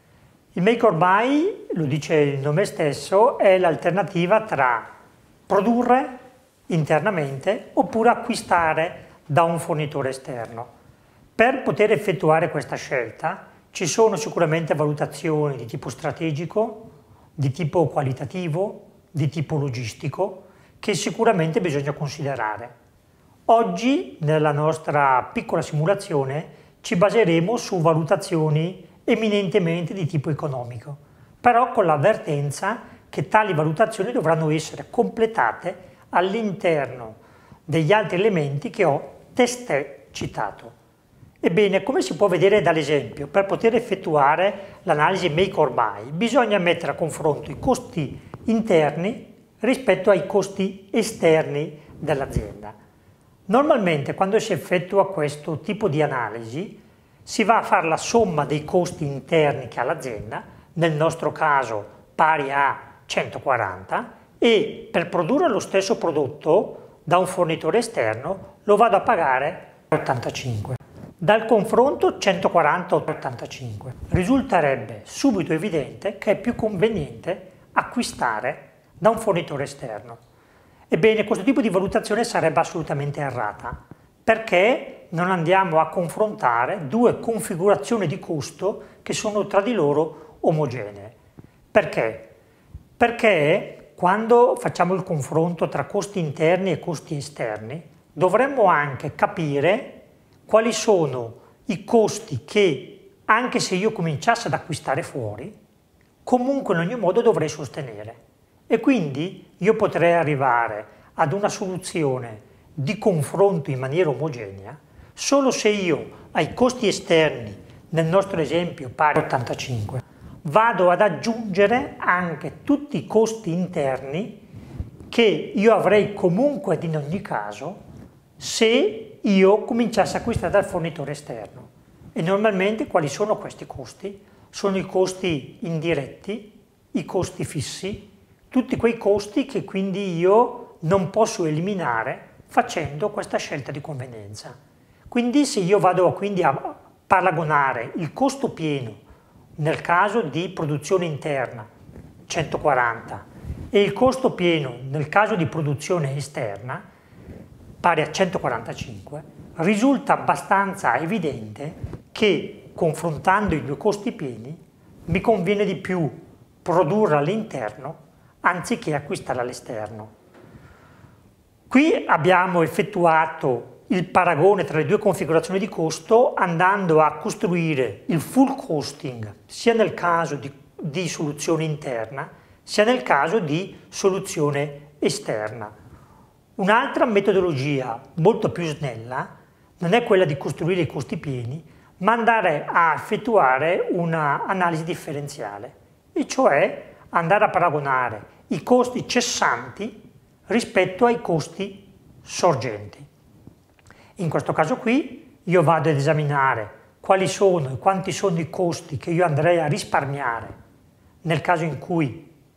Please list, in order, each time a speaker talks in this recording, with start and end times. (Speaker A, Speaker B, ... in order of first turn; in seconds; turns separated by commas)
Speaker A: 0.5-4.9, Speaker A: 5.5-6.1, Speaker A: 6.7-10.7, Speaker A: 11.3-22.7, Speaker A: 23.5-40.7, Speaker A: 41.4-52.8, Speaker A: 53.5-80.2, Speaker A: 80.9-91.2, Speaker A: 91.7-92.3, Speaker A: 93.0-105.5, Speaker A: 106.2-124.4, Speaker A: 125.1-127.8, Speaker A: 128.4-144.6, Speaker A: 145.1-149.0, Speaker A: 149.6-151.7, Speaker A: 152.3-156.8, Speaker A: 157.8-170.1, Speaker A: 171.7-185.7, Speaker A: 186.6-203.1, Speaker A: 204.2-210.5, Speaker A: 211.2-212.3